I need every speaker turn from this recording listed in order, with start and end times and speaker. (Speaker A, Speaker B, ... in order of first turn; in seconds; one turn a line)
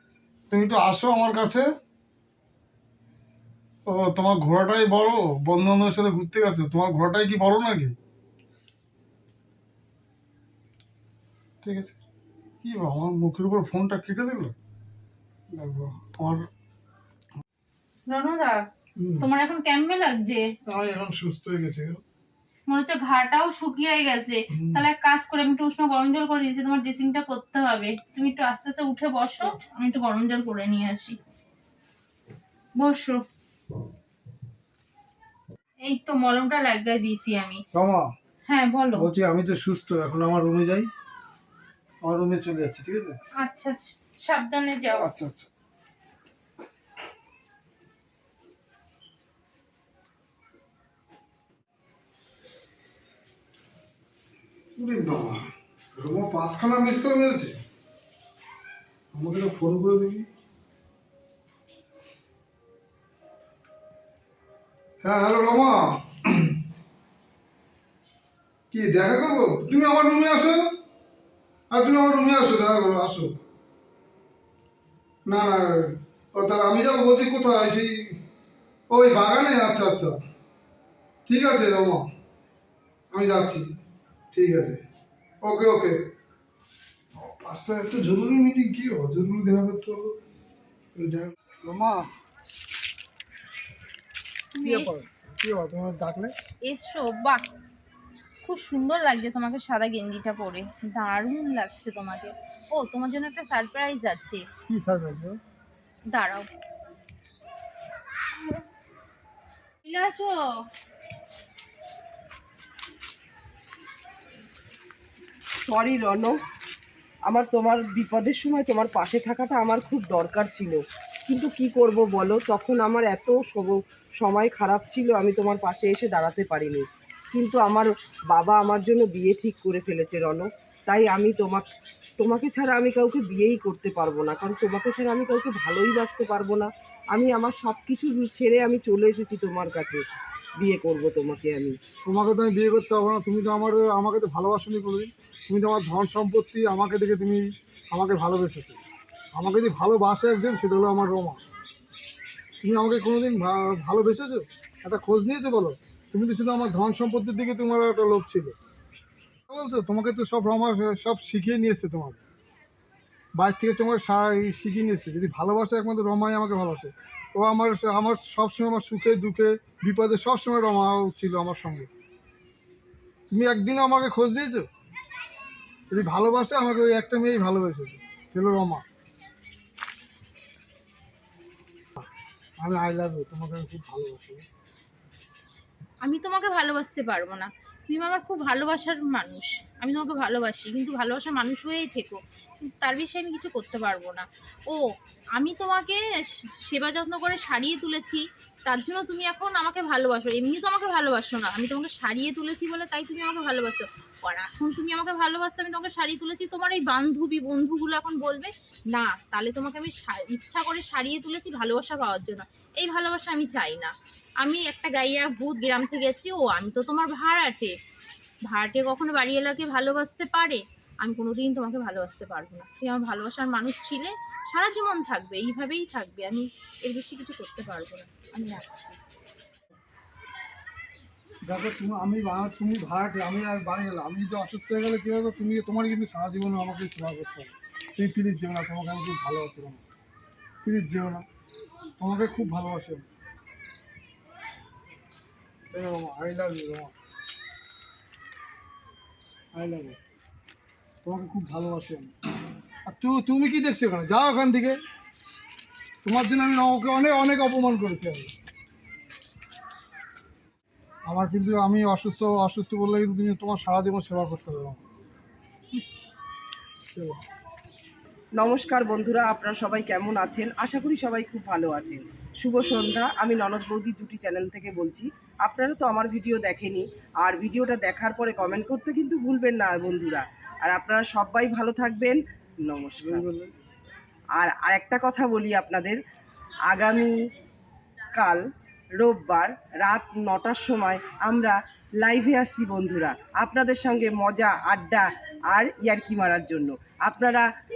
Speaker A: 0.5-1.7
Speaker A: 3.9-8.0
Speaker A: 11.6-12.0
Speaker A: 12.6-14.5
Speaker A: 15.5-16.5
Speaker B: 18.1-18.6
Speaker A: 19.0-19.3
Speaker B: 19.2-20.5
Speaker A: 20.7-22.0
Speaker B: 22.7-31.2
Speaker A: 24.5-24.8
Speaker B: 32.8-33.2
Speaker B: 35.8-37.6
Speaker A: 37.7-38.1
Speaker B: 38.5-39.1
Speaker A: 39.0-40.9
Speaker A: 42.0-43.2
Speaker B: 43.4-45.1
Speaker A: 44.9-45.5
Speaker A: 54.8-57.5
Speaker A: 59.1-60.3
Speaker A: 65.0-66.6
Speaker A: 68.7-70.7
Speaker A: 71.7-73.3
Speaker A: 75.3-78.2
Speaker A: 78.9-80.2
Speaker A: 81.3-82.0
Speaker A: 83.1-83.7
Speaker A: 84.3-84.8
Speaker A: 85.4-86.0
Speaker A: 87.2-90.1
Speaker A: 91.0-92.1
Speaker B: 94.5-95.0
Speaker A: 94.6-96.3
Speaker B: 96.6-97.5
Speaker B: 98.4-104.4
Speaker A: 104.7-105.4
Speaker B: 106.1-106.5
Speaker B: 109.8-110.4
Speaker C: 115.7-116.3
Speaker C: 117.3-131.7
Speaker C: 132.2-140.0
Speaker C: 140.6-141.8
Speaker A: 142.1-148.8
Speaker A: 149.4-151.4
Speaker A: 152.6-158.6
Speaker A: 159.5-162.2
Speaker A: 163.4-171.9
Speaker A: 173.3-174.7
Speaker A: 175.9-178.8
Speaker A: 182.6-184.5
Speaker B: 186.0-194.8
Speaker B: 195.3-217.8
Speaker B: 218.5-229.0
Speaker A: 231.5-239.8
Speaker A: 240.6-241.3
Speaker A: 242.0-243.1
Speaker A: 245.7-246.9
Speaker A: 249.6-250.0
Speaker A: 251.0-252.1
Speaker A: 252.9-254.8
Speaker A: 256.0-258.3
Speaker A: 261.1-264.8
Speaker C: 268.4-283.2
Speaker A: 283.0-283.5
Speaker C: 284.4-286.0
Speaker C: 286.7-287.1
Speaker C: 288.1-288.4
Speaker C: 289.0-297.5